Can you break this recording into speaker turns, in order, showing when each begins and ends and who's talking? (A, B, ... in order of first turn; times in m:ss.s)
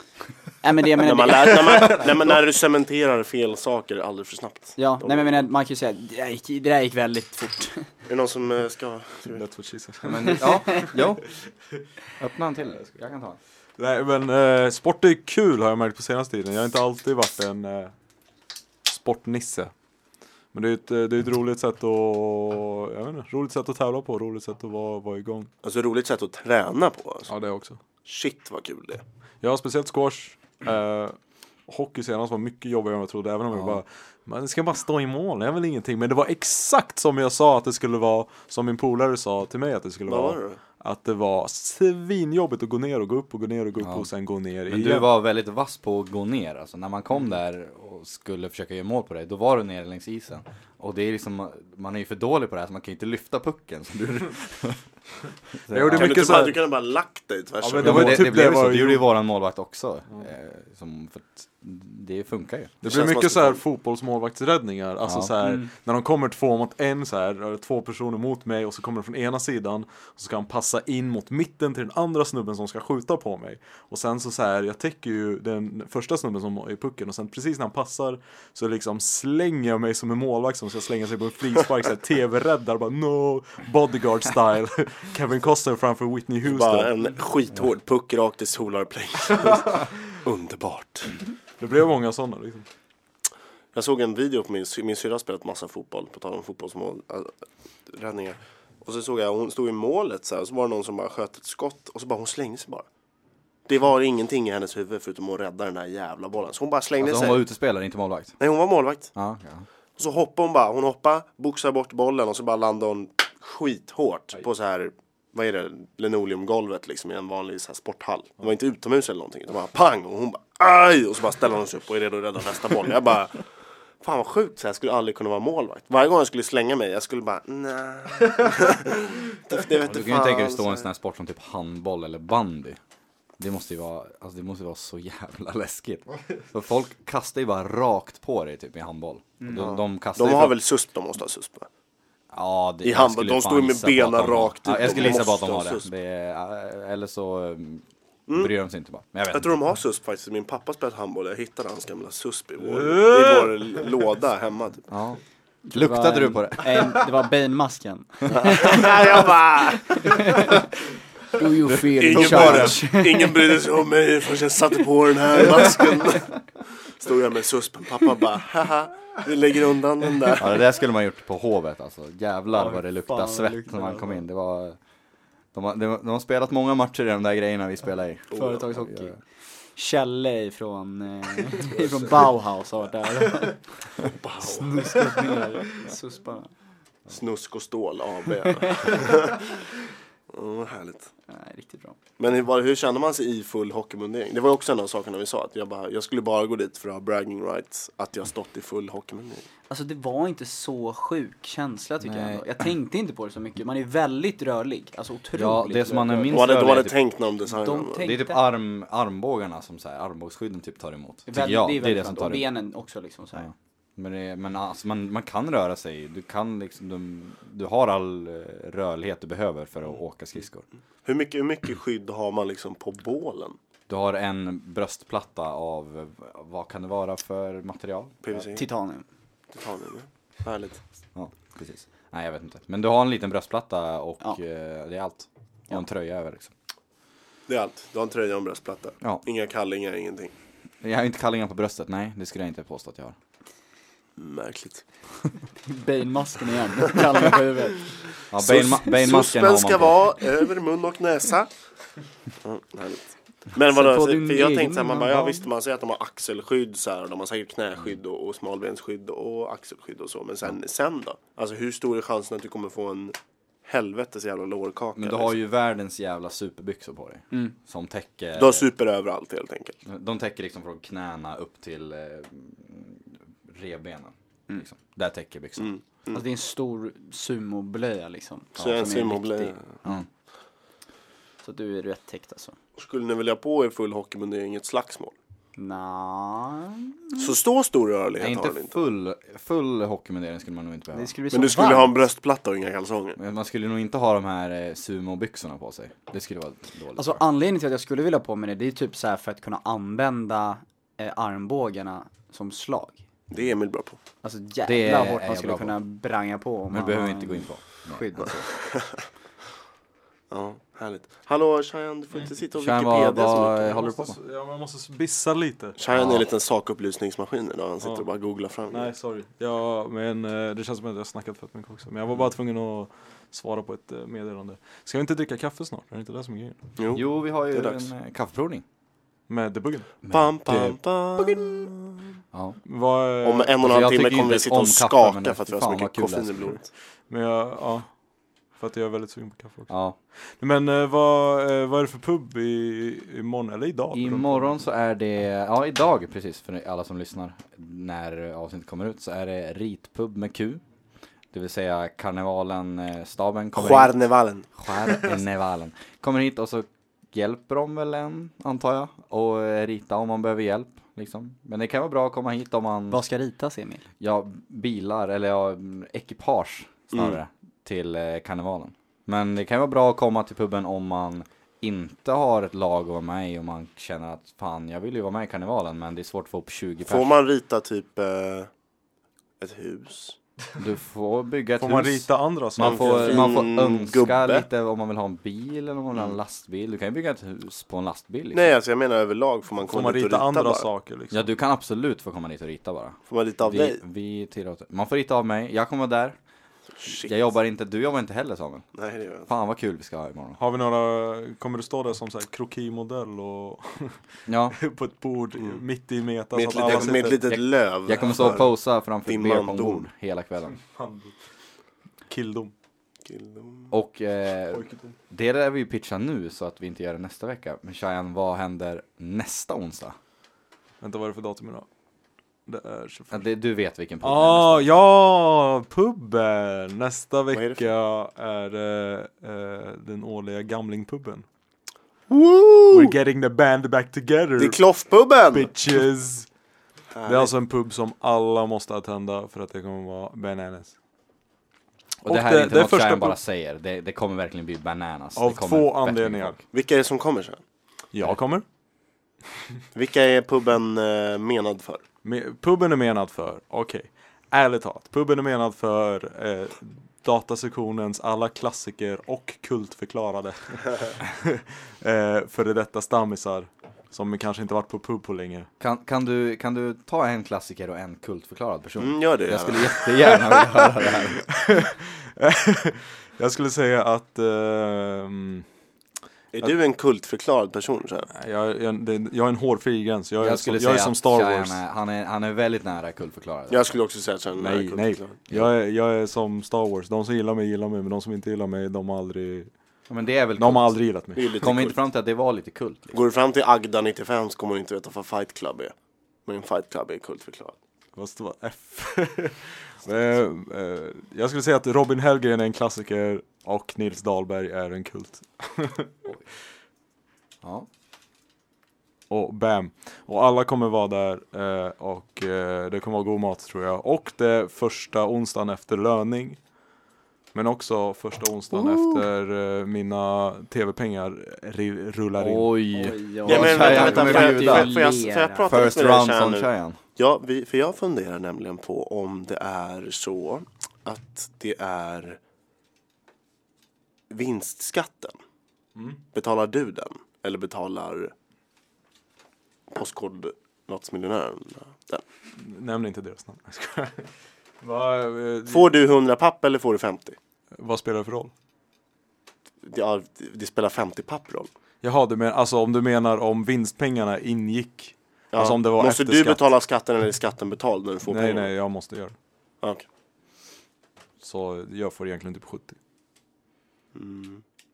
0:00.6-0:02.1 A
0:01.0-0:05.5 B
0:01.7-0:02.0 C
0:04.8-0:07.9 A
0:08.1-0:09.4 B
0:09.3-0:10.8 C
0:10.0-0:11.2 D
0:10.3-0:11.0 A
0:12.2-0:13.4 D
0:13.8-0:17.9 C
0:18.9-0:19.7 C
0:20.5-0:25.5 C
0:25.6-0:27.3 B
0:27.3-0:27.8 C
0:28.0-0:29.0 B
0:29.4-0:45.1 C
0:40.1-0:40.6 B
0:43.8-0:44.1 D
0:44.7-0:54.8 D
0:55.7-0:56.4 D
0:55.7-0:56.6 C
0:55.9-0:58.3 B
0:57.6-0:59.0 C
0:57.8-1:02.8 D
1:02.8-1:26.9 C
1:02.9-1:03.6 B
1:05.0-1:05.3 D
1:05.4-1:05.7 A
1:26.4-1:31.2 B
1:31.6-1:32.7 C
1:33.7-1:37.3 B
1:37.9-1:42.9 B
1:43.7-1:47.4 B
1:47.0-1:48.4 D
1:48.4-1:49.1 B
1:49.1-1:49.7 D
1:50.0-2:03.4 B
2:04.0-2:10.9 B
2:09.8-2:12.8 D
2:13.4-2:20.6 D
2:19.5-2:21.7 B
2:22.3-2:29.5 D
2:22.8-2:25.9 B
2:28.3-2:28.5 B
2:29.3-2:34.8 B
2:32.6-2:33.9 C
2:34.9-2:35.2 D
2:35.6-2:39.0 A
2:35.7-2:37.1 D
2:38.3-2:40.1 B
2:39.9-2:40.7 A
2:41.3-2:43.4 A
2:41.9-2:42.8 D
2:42.0-2:50.6 B
2:50.4-2:54.8 D
2:52.5-2:54.2 A
2:55.5-2:59.2 D
2:58.3-2:59.2 A
2:58.3-2:58.6 B
2:59.8-3:03.6 A
3:04.0-3:05.2 B
3:04.4-3:06.5 A
3:07.1-3:09.6 B
3:08.6-3:09.1 A
3:10.3-3:11.1 B
3:11.3-3:12.0 A
3:12.2-3:19.5 B
3:19.7-3:26.5 A
3:22.0-3:22.6 D
3:25.4-3:27.0 D
3:26.3-3:28.1 B
3:27.5-3:28.4 A
3:28.0-3:32.5 D
3:31.3-3:33.5 A
3:33.4-3:40.6 D
3:41.0-3:43.6 B
3:43.9-3:48.4 D
3:48.2-3:48.6 B
3:48.5-3:49.1 A
3:49.5-3:50.8 B
3:51.2-3:56.5 D
3:57.5-4:00.3 B
4:00.8-4:03.2 D
4:04.2-4:04.8 B
4:05.7-4:08.0 A
4:08.3-4:10.2 D
4:08.4-4:11.5 B
4:12.4-4:25.3 B
4:13.6-4:15.4 A
4:25.0-4:28.7 D
4:28.4-4:29.8 B
4:29.9-4:35.7 D
4:35.6-4:36.2 B
4:36.1-4:40.0 A
4:38.6-4:39.7 B
4:41.4-4:42.6 A
4:42.8-4:45.2 B
4:45.6-4:47.3 A
4:47.2-4:48.8 B
4:48.2-4:51.1 D
4:50.9-4:51.9 A
4:51.3-4:53.2 B
4:53.2-4:57.2 D
4:57.0-5:03.0 A
5:03.3-5:04.0 B
5:04.2-5:08.4 A
5:04.6-5:05.8 D
5:06.7-5:08.5 D
5:08.2-5:09.0 B
5:10.3-5:13.8 B
5:12.6-5:14.2 D
5:13.7-5:15.8 C
5:15.8-5:18.9 B
5:15.9-5:16.2 D
5:17.8-5:18.1 C
5:18.7-5:26.6 C
5:26.8-5:27.9 B
5:26.9-5:28.6 D
5:29.3-5:30.0 C
5:30.0-5:30.7 D
5:30.1-5:32.0 B
5:30.5-5:31.7 C
5:32.3-5:32.6 D
5:32.7-5:33.6 C
5:33.2-5:36.7 B
5:33.6-5:36.6 D
5:37.1-5:37.9 C
5:38.6-5:44.5 C
5:39.7-5:40.0 D
5:43.9-5:50.6 D
5:51.3-5:53.9 D
5:53.6-5:54.5 B
5:54.6-6:03.0 D
6:02.9-6:03.8 A
6:04.0-6:17.1 D
6:06.9-6:07.2 B
6:16.8-6:18.5 B
6:19.4-6:20.2 B
6:20.6-6:28.5 D
6:21.6-6:23.4 C
6:22.6-6:24.4 B
6:28.3-6:30.7 B
6:29.7-6:31.3 C
6:31.1-6:36.2 D
6:33.1-6:33.8 B
6:36.8-6:37.2 B
6:36.8-6:38.6 D
6:38.8-6:39.3 B
6:39.3-6:40.4 D
6:40.4-6:47.2 C
6:44.3-6:44.6 D
6:46.3-6:48.5 B
6:46.5-6:50.6 D
6:49.1-6:49.8 B
6:50.5-6:51.2 C
6:52.1-6:52.5 C
6:53.1-6:53.8 B
6:53.7-7:00.0 D
6:54.5-6:55.0 C
7:00.8-7:01.7 C
7:02.5-7:03.2 C
7:03.1-7:04.7 D
7:04.0-7:11.2 C
7:07.3-7:07.6 B
7:12.1-7:12.9 B
7:12.7-7:14.6 C
7:14.4-7:15.5 B
7:15.3-7:16.3 C
7:17.0-7:17.3 B
7:17.1-7:20.8 C
7:22.0-7:26.4 D
7:22.1-7:23.2 C
7:25.2-7:26.4 C
7:26.5-7:27.4 B
7:27.9-7:28.4 C
7:29.7-7:31.8 B
7:32.0-7:45.5 C
7:45.6-7:51.3 D
7:48.8-7:50.1 B
7:51.3-7:55.5 C
7:56.3-7:58.1 B
7:58.1-8:01.6 C
8:00.2-8:03.8 D
8:03.5-8:05.2 B
8:04.4-8:09.5 C
8:09.9-8:10.8 D
8:10.4-8:11.4 C
8:11.2-8:11.8 B
8:11.4-8:13.0 D
8:12.9-8:15.7 B
8:16.3-8:17.6 B
8:18.0-8:26.1 C
8:27.4-8:27.7 D
8:29.1-8:36.4 C
8:37.3-8:42.6 C
8:42.2-8:44.8 D
8:42.7-8:45.6 A
8:43.2-8:52.2 B
8:45.4-8:46.8 D
8:54.1-8:55.2 B
8:55.8-8:56.0 C
8:56.1-8:58.1 B
8:59.7-9:02.0 B
9:02.3-9:04.1 C
9:04.6-9:05.7 C
9:05.5-9:07.2 B
9:07.6-9:08.3 C
9:09.6-9:11.5 B
9:11.8-9:16.4 C
9:15.3-9:18.5 B
9:18.1-9:19.2 C
9:21.2-9:22.8 C
9:24.0-9:24.4 B